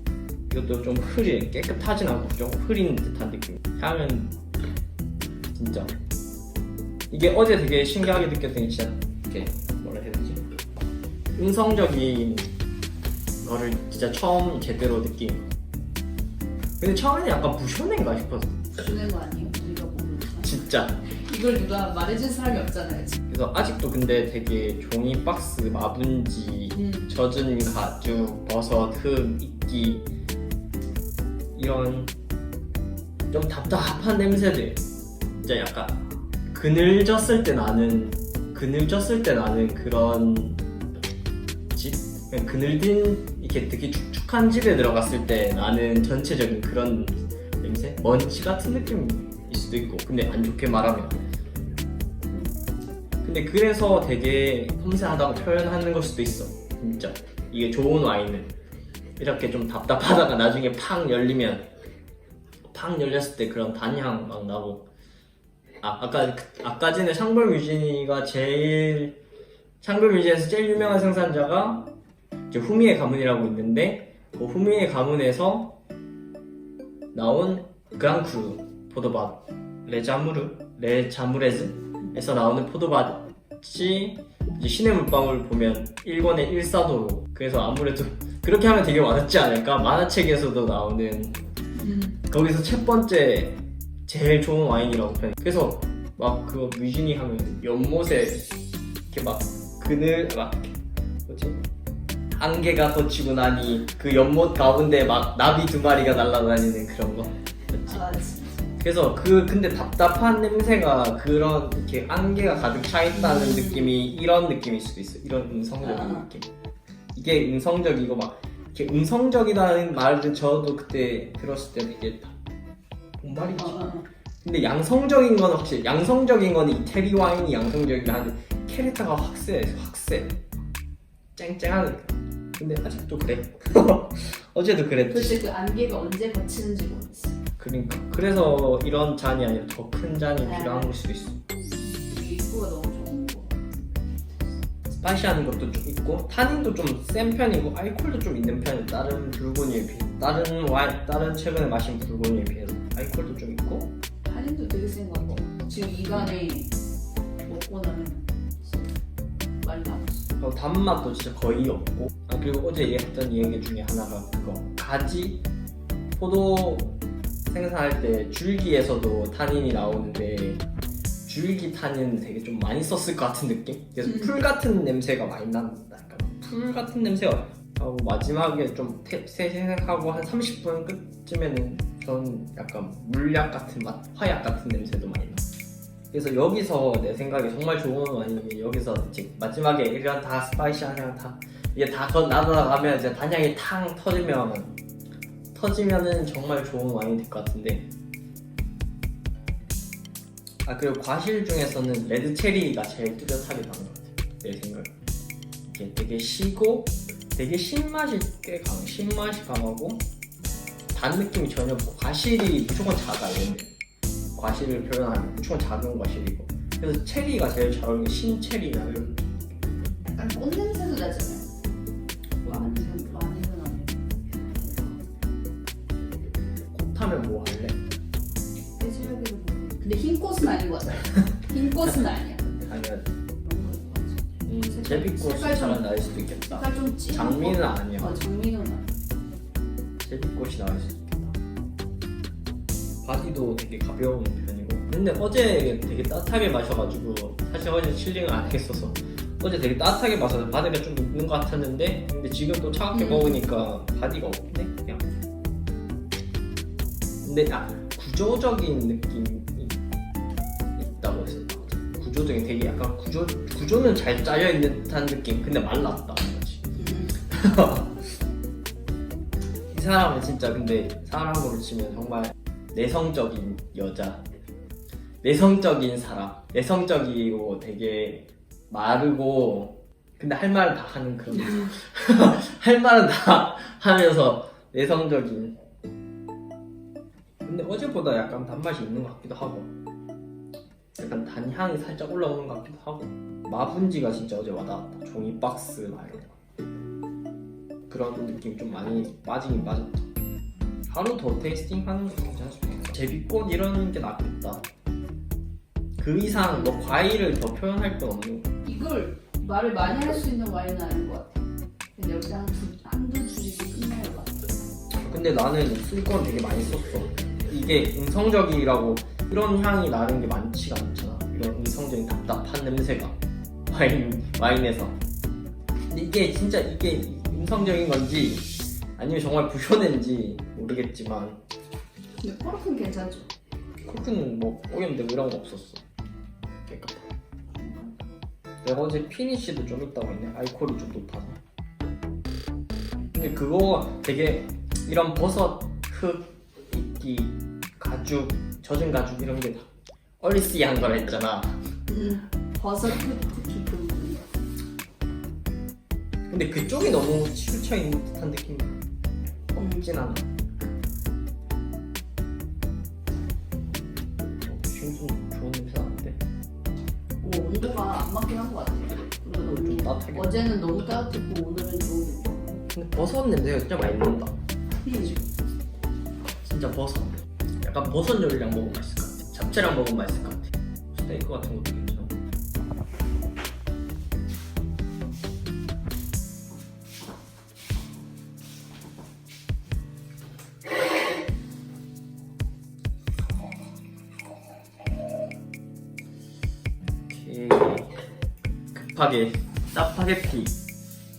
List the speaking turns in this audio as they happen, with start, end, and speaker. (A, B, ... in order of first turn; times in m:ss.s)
0:00.5-0:04.3 A
0:05.5-0:06.0 A
0:07.1-0:10.4 A
0:11.4-0:12.5 A
0:13.4-0:15.5 A
0:16.8-0:18.6 A
0:18.7-0:20.5 B
0:20.4-0:21.0 A
0:21.1-0:23.2 B
0:23.3-0:30.1 A
0:31.5-0:32.1 A
0:33.3-0:34.8 A
0:35.4-0:40.6 A
0:41.7-0:51.3 A
0:53.2-0:58.5 A
0:59.2-1:01.7 A
1:02.7-1:04.9 A
1:05.8-1:09.2 A
1:09.8-1:11.9 A
1:12.5-1:15.8 A
1:17.1-1:31.4 A
1:31.8-1:32.1 B
1:32.0-1:38.5 A
1:39.1-1:41.6 A
1:42.4-1:48.0 A
1:47.8-1:48.6 B
1:48.8-1:56.5 A
1:55.8-1:56.2 B
1:57.1-2:02.3 A
2:03.2-2:03.9 A
2:03.3-2:04.1 B
2:04.4-2:10.4 A
2:11.4-2:15.4 A
2:15.1-2:17.4 B
2:17.6-2:21.4 A
2:20.4-2:20.9 B
2:22.0-2:24.5 B
2:24.9-2:33.9 A
2:34.2-2:36.7 B
2:37.4-2:38.9 B
2:39.6-2:40.2 B
2:40.4-2:45.4 A
2:46.2-2:47.0 A
2:47.5-2:50.6 A
2:51.2-3:05.4 A
3:06.1-3:14.7 A
3:15.5-3:17.9 A
3:20.6-3:24.9 A
3:25.7-3:30.0 A
3:30.9-3:33.7 A
3:34.3-3:39.3 A
3:40.1-3:41.5 B
3:42.4-3:45.0 B
3:42.4-3:43.0 A
3:46.7-3:47.8 A
3:48.8-3:52.6 B
3:52.5-3:53.1 A
3:53.4-3:58.9 B
3:54.4-3:58.2 A
4:00.0-4:01.3 A
4:03.0-4:15.1 A
4:17.2-4:19.8 A
4:20.8-4:28.0 A
4:29.7-4:34.2 A
4:35.2-4:45.6 A
4:47.4-4:49.7 A
4:51.0-4:56.4 A
4:57.9-5:00.0 A
5:00.9-5:04.7 A
5:06.0-5:08.5 A
5:08.6-5:11.4 B
5:12.0-5:14.5 B
5:14.9-5:23.2 A
5:23.7-5:25.0 A
5:25.9-5:31.4 A
5:32.2-5:33.3 B
5:33.8-5:35.8 A
5:36.7-5:37.0 A
5:37.6-5:38.0 B
5:38.6-5:41.4 A
5:43.1-5:49.7 A
5:50.2-5:51.6 A
5:51.9-5:54.3 B
5:56.3-5:58.8 A
5:59.5-6:00.4 A
6:04.4-6:06.2 A
6:07.2-6:12.6 B
6:09.4-6:10.6 A
6:12.7-6:14.4 A
6:14.8-6:15.2 B
6:16.3-6:22.2 A
6:37.1-6:37.9 A
6:38.7-6:40.6 A